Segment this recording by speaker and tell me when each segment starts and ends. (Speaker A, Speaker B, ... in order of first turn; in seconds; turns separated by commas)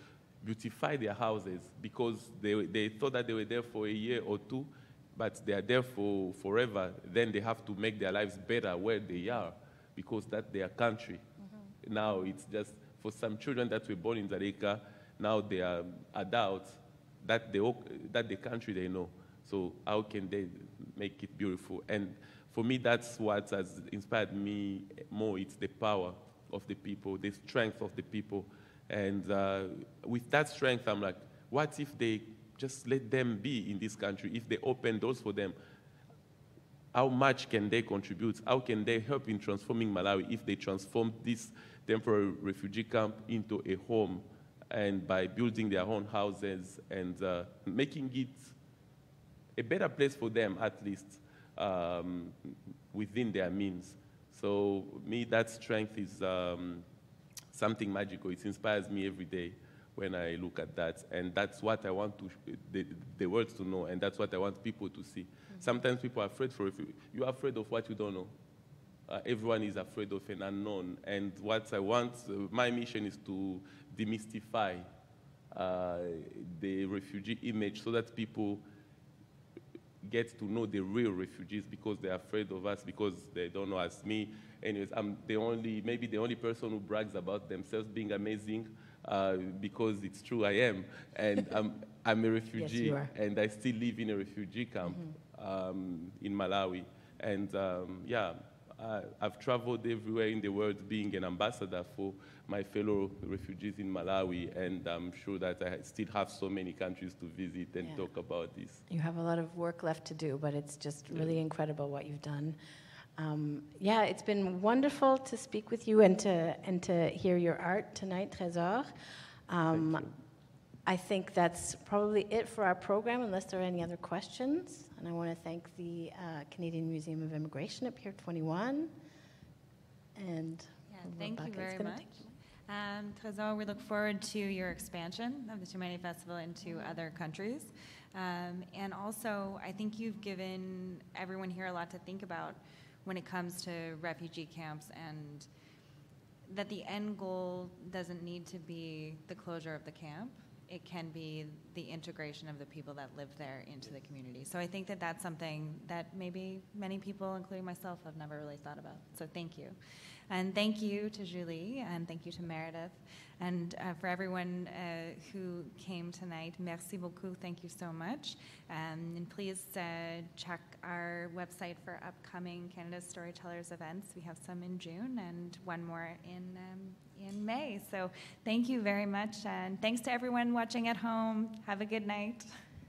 Speaker A: 0.4-11.2, Speaker B: 11.4-11.7, Speaker A: 11.8-35.5, Speaker A: 36.9-48.5, Speaker A: 49.5-56.9, Speaker A: 57.5-68.3, Speaker A: 69.1-74.9, Speaker A: 75.5-78.6, Speaker A: 80.0-108.8, Speaker B: 92.6-93.1, Speaker B: 94.9-95.1, Speaker B: 108.9-112.6, Speaker A: 111.1-111.4, Speaker B: 113.2-118.9, Speaker B: 119.5-120.0, Speaker A: 119.7-120.2, Speaker B: 120.8-128.9, Speaker B: 130.2-132.3, Speaker C: 130.9-145.5, Speaker B: 136.6-137.0, Speaker C: 146.5-159.8, Speaker C: 160.3-182.5